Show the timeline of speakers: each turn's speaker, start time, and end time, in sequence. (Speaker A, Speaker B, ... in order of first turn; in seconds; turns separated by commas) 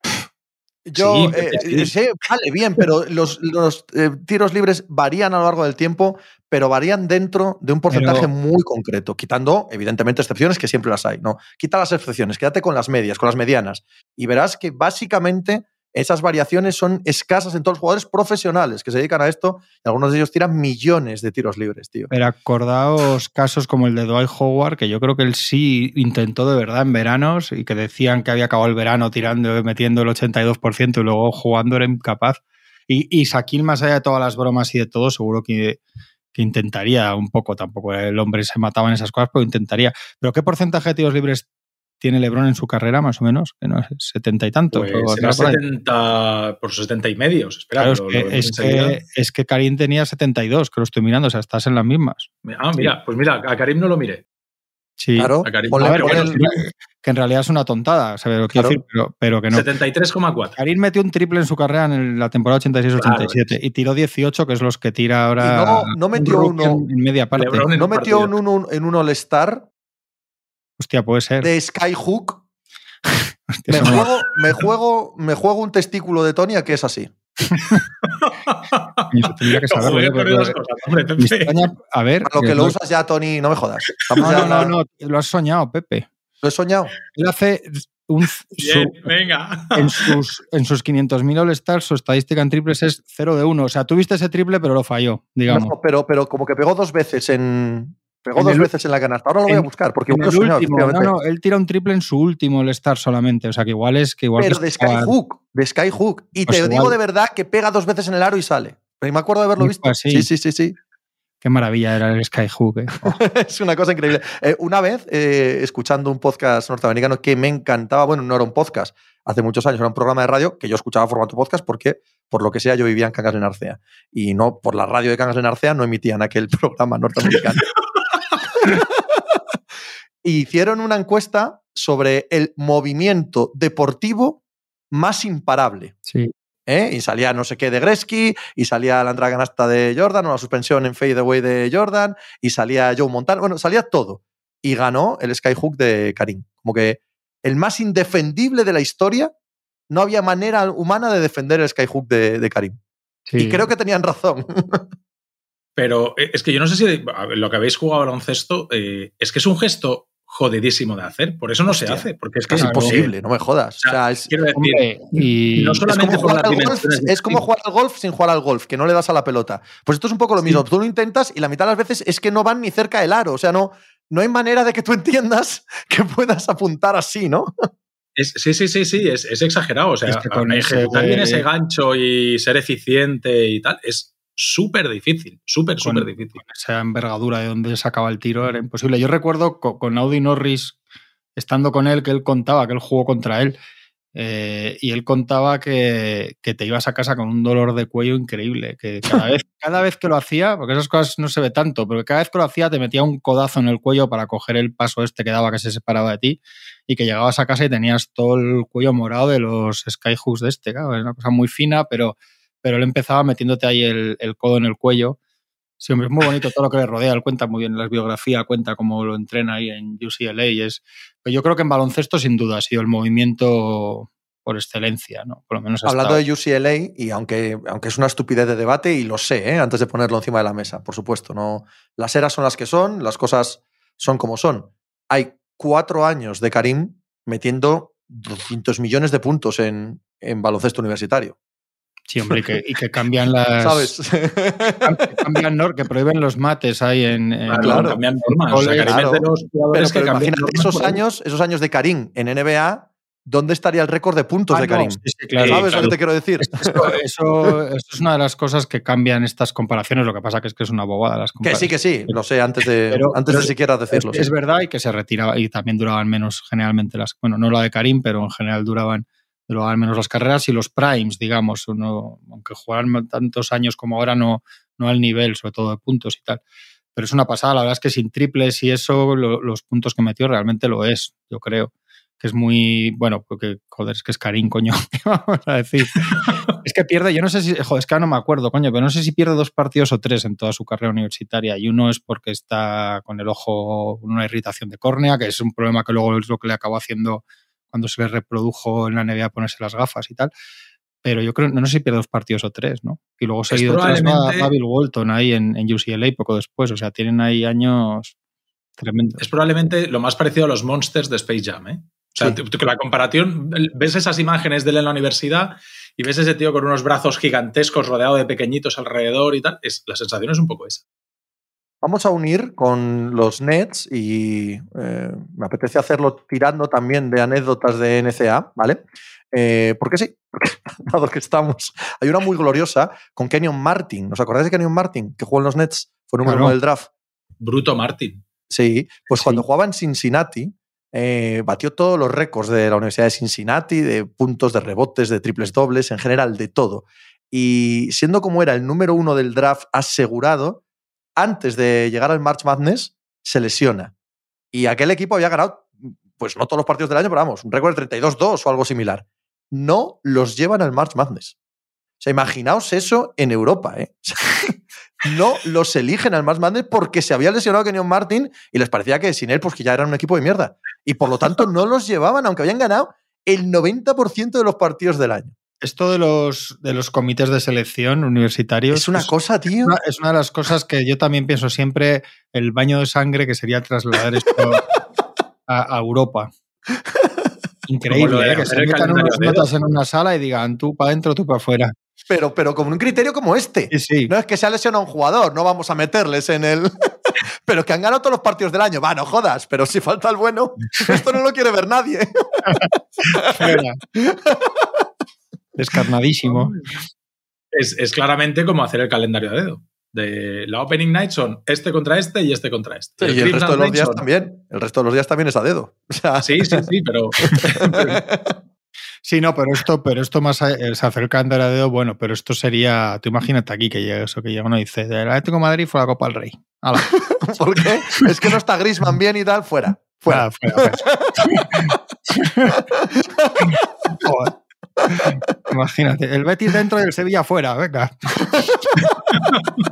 Speaker A: 0.8-22.1, Speaker B: 1.0-1.9, Speaker C: 7.9-8.3, Speaker C: 22.1-35.8, Speaker C: 36.3-41.5, Speaker C: 42.0-45.6, Speaker B: 44.7-49.0, Speaker C: 47.8-52.3, Speaker B: 52.5-54.2, Speaker C: 55.0-59.6, Speaker A: 55.2-56.4, Speaker B: 55.5-56.6, Speaker B: 59.5-60.6, Speaker C: 60.6-67.7, Speaker B: 63.0-63.5, Speaker A: 65.4-66.8, Speaker B: 67.3-68.3, Speaker A: 67.7-69.7, Speaker C: 70.8-71.5, Speaker A: 71.4-72.4, Speaker C: 73.1-74.1, Speaker A: 73.7-77.1, Speaker C: 77.5-77.8, Speaker B: 78.2-81.6, Speaker C: 79.1-80.6, Speaker C: 81.2-82.8, Speaker A: 82.2-84.7, Speaker C: 84.2-86.1, Speaker A: 86.4-86.9, Speaker C: 87.2-89.1, Speaker B: 88.6-90.1, Speaker C: 89.7-95.7, Speaker A: 95.5-101.1, Speaker C: 98.4-98.7, Speaker C: 99.5-105.1, Speaker A: 104.4-110.8, Speaker C: 106.5-107.0, Speaker C: 109.6-110.3, Speaker C: 111.4-113.2, Speaker A: 113.0-127.7, Speaker A: 128.6-129.2, Speaker A: 130.2-134.4, Speaker A: 134.9-135.9, Speaker C: 136.1-136.3, Speaker A: 136.7-149.3, Speaker A: 149.9-152.8, Speaker C: 153.3-153.7, Speaker A: 153.4-154.8, Speaker B: 155.8-163.1, Speaker A: 161.7-164.3, Speaker C: 162.6-163.0, Speaker B: 163.8-167.4, Speaker C: 164.6-165.9, Speaker A: 165.9-177.5, Speaker B: 178.2-186.4, Speaker C: 180.1-181.5, Speaker C: 185.8-190.8, Speaker C: 191.4-193.6, Speaker C: 194.1-215.2, Speaker C: 215.8-226.2, Speaker A: 225.9-241.4, Speaker C: 242.1-243.9, Speaker A: 243.6-245.1, Speaker C: 244.8-248.9, Speaker B: 247.5-251.0, Speaker A: 247.6-248.0, Speaker A: 248.8-257.5, Speaker C: 254.5-262.2, Speaker B: 255.4-255.9, Speaker A: 261.4-264.3, Speaker C: 262.9-276.4, Speaker C: 276.9-300.3, Speaker C: 301.0-308.1, Speaker B: 303.5-304.5, Speaker C: 308.8-309.2, Speaker B: 309.2-320.8, Speaker A: 321.8-336.9, Speaker C: 336.2-336.6, Speaker B: 337.4-338.2, Speaker A: 338.5-350.6, Speaker A: 351.2-353.9, Speaker A: 354.5-361.4, Speaker A: 362.0-375.3, Speaker C: 375.6-379.1, Speaker A: 378.7-379.7, Speaker C: 379.6-384.6, Speaker C: 385.5-386.3, Speaker C: 387.7-391.7, Speaker B: 387.9-389.5, Speaker A: 392.1-396.9, Speaker C: 393.7-394.1, Speaker A: 397.4-404.8, Speaker C: 402.6-403.8, Speaker C: 405.6-406.5, Speaker B: 406.2-406.8, Speaker B: 407.5-414.0, Speaker A: 413.0-416.7, Speaker B: 416.2-418.0, Speaker A: 417.3-418.4, Speaker C: 419.1-426.9, Speaker A: 427.0-431.5, Speaker C: 430.1-432.6, Speaker A: 432.5-433.7, Speaker C: 433.5-437.9, Speaker A: 438.3-438.9